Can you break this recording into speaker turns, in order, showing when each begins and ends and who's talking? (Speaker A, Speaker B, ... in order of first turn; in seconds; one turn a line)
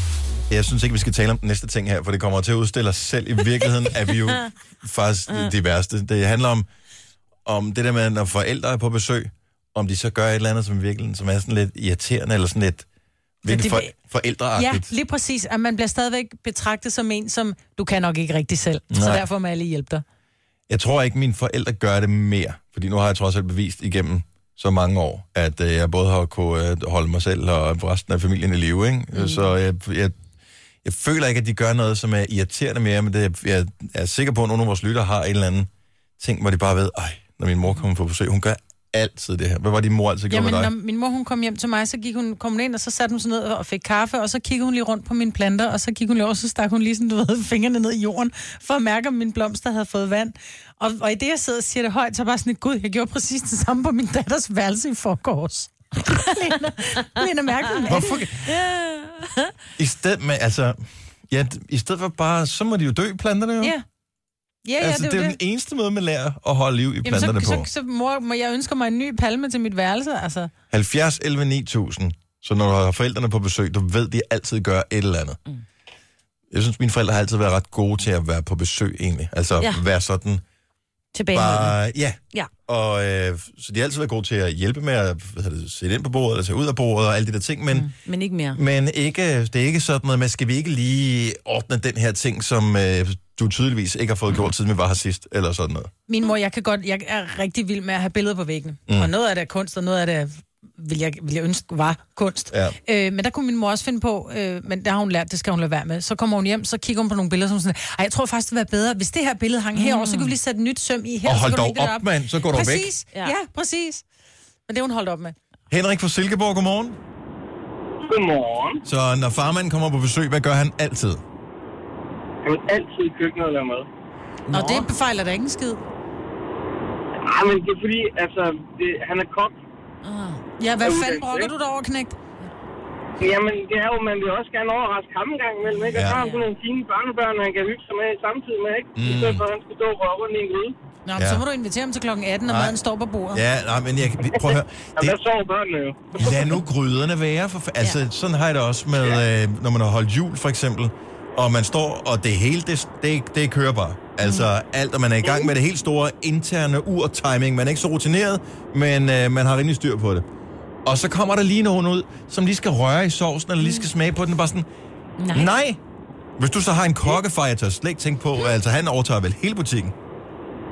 Speaker A: 0.5-6.7
Speaker A: 7.5-12.9
Speaker A: 13.4-14.9
Speaker B: 13.5-13.9
Speaker B: 14.6-20.0
Speaker A: 18.9-19.2
Speaker A: 20.7-30.1
Speaker A: 30.8-40.7
Speaker B: 40.3-58.1
Speaker A: 57.9-58.7
Speaker C: 58.5-59.2
Speaker A: 59.8-60.8
Speaker A: 61.3-63.8
Speaker B: 64.6-65.4
Speaker A: 64.8-67.7
Speaker B: 67.0-70.5
Speaker A: 70.7-75.4
Speaker A: 76.5-80.4
Speaker C: 81.1-81.8
Speaker A: 81.3-87.9
Speaker C: 88.0-88.6
Speaker A: 88.5-95.9
Speaker B: 96.1-114.0
Speaker A: 102.5-102.8
Speaker C: 109.8-110.3
Speaker A: 111.2-112.9
Speaker B: 114.7-115.3
Speaker A: 115.7-117.0
Speaker D: 118.0-118.8
Speaker A: 118.8-121.2
Speaker D: 122.4-123.9
Speaker B: 124.5-125.8
Speaker C: 124.5-124.8
Speaker D: 127.2-129.6
Speaker C: 130.0-130.4
Speaker B: 130.6-132.2
Speaker D: 130.8-131.5
Speaker D: 133.2-140.8
Speaker A: 135.9-136.2
Speaker C: 136.0-136.4
Speaker A: 139.0-139.4
Speaker B: 141.1-143.4
Speaker A: 141.2-141.4
Speaker A: 142.5-142.8
Speaker A: 143.3-145.2
Speaker D: 144.4-146.6
Speaker A: 146.2-160.2
Speaker C: 154.2-154.5
Speaker A: 160.9-164.7
Speaker A: 165.3-165.8
Speaker A: 166.4-169.9